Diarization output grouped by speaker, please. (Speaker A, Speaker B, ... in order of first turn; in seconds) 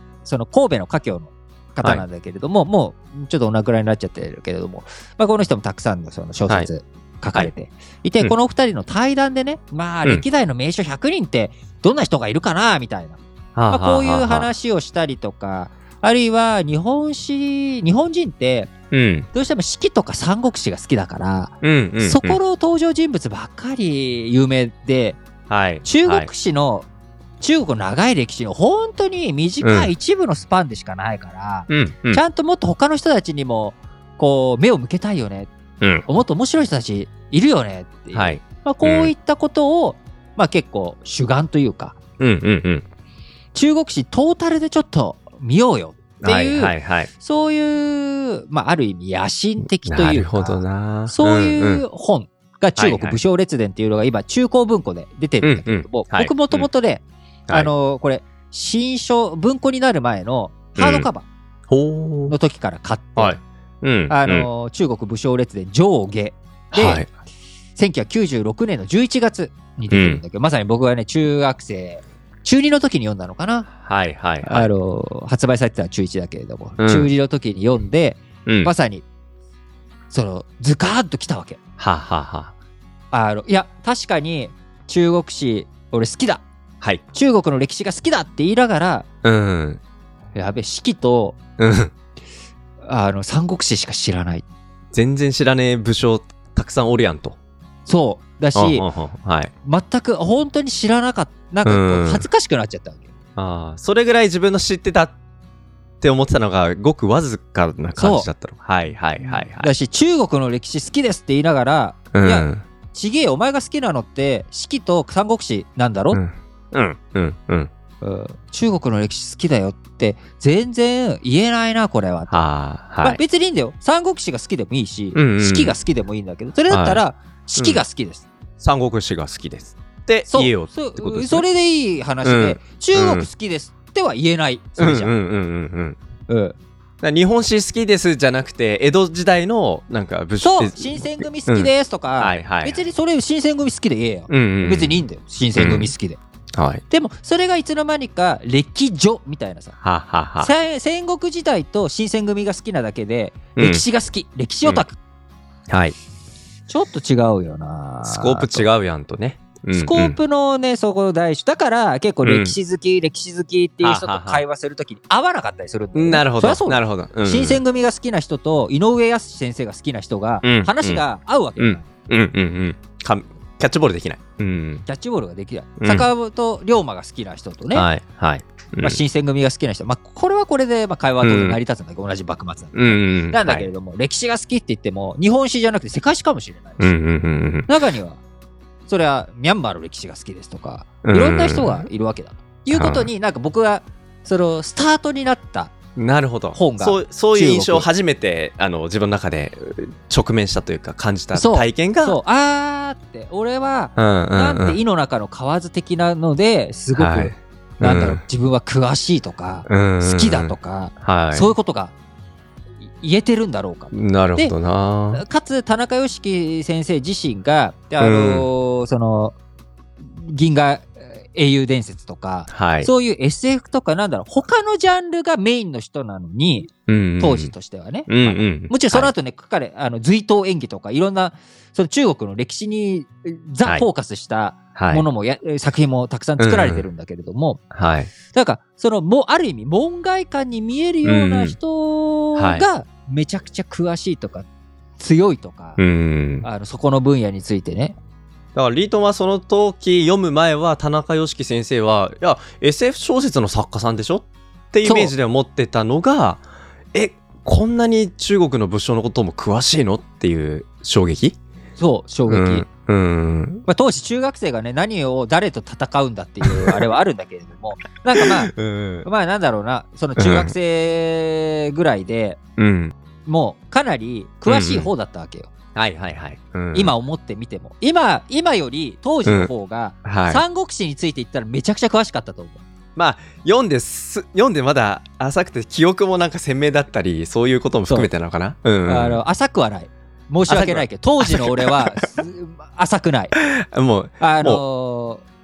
Speaker A: 0.2-13.2, 13.7-18.7, 19.3-25.2, 25.8-26.9, 27.4-35.5, 36.0-42.0, 43.5-61.3, 62.3-63.4, 64.1-67.0, 67.8-73.7, 74.4-79.0, 80.1-81.6, 83.1-86.4, 87.1-89.1, 90.3-91.4, 92.8-94.4, 97.8-98.8, 99.6-103.0, 108.0-108.3, 109.2-116.2, 118.0-122.4, 123.0-128.2, 130.3-135.1, 136.3-136.6, 140.4-146.2, 146.9-149.8, 150.4-155.0, 156.7-158.7, 159.7-171.8, 174.8-177.9, 178.8-186.9, 187.7-188.2, 188.8-195.8, 196.5-197.9, 201.3-211.9, 212.9-214.5, 215.1-219.3, 220.1-237.6, 238.3-244.5, 245.0-245.8, 246.4-248.0, 254.8-255.1, 261.8-262.6, 263.7-268.5, 269.0-272.4, 273.2-275.5, 276.7-282.6, 288.9-293.3, 294.2-295.2
Speaker B: 13.6-14.5, 18.9-19.3, 21.6-22.4, 25.5-26.3, 29.6-29.9, 31.7-32.2, 35.8-36.0, 38.1-39.1, 42.2-42.9, 46.2-47.1, 49.9-51.8, 52.8-53.2, 55.4-56.7, 60.8-61.1, 61.7-62.3, 63.1-64.5, 66.7-67.1, 69.9-70.2, 73.8-74.7, 76.8-77.1, 78.5-78.7, 81.8-82.5, 89.2-89.8, 91.6-91.9, 94.9-97.4, 98.5-99.5, 101.6-102.3, 103.3-105.1, 106.0-109.7, 112.1-112.6, 116.1-117.7, 122.3-123.2, 125.1-125.8, 126.7-127.8, 128.6-131.4, 132.2-133.3, 134.8-136.0, 137.0-142.8, 144.3-145.0, 145.6-145.9, 146.5-146.8, 149.8-150.5, 153.6-153.8, 155.7-155.9, 158.0-160.2, 162.2-162.6, 163.8-164.4, 165.9-167.6, 170.4-171.0, 171.6-174.8, 175.8-176.1, 177.7-179.0, 181.2-181.6, 182.7-183.7, 186.8-187.7, 191.0-191.9, 192.7-193.1, 195.9-202.2, 203.9-204.8, 206.9-208.2, 209.7-211.5, 213.9-215.2, 218.0-218.4, 222.5-222.9, 226.9-227.5, 228.1-229.1, 234.7-235.0, 236.4-236.8, 237.7-238.1, 241.0-241.6, 242.3-242.7, 245.8-246.4, 248.5-256.4, 256.9-261.4, 262.3-263.6, 266.4-266.8, 268.1-269.1, 270.2-270.5, 272.6-272.9, 274.4-274.9, 275.7-276.9, 279.2-279.5, 280.0-280.4, 282.9-289.2, 290.5-292.1, 293.3-294.6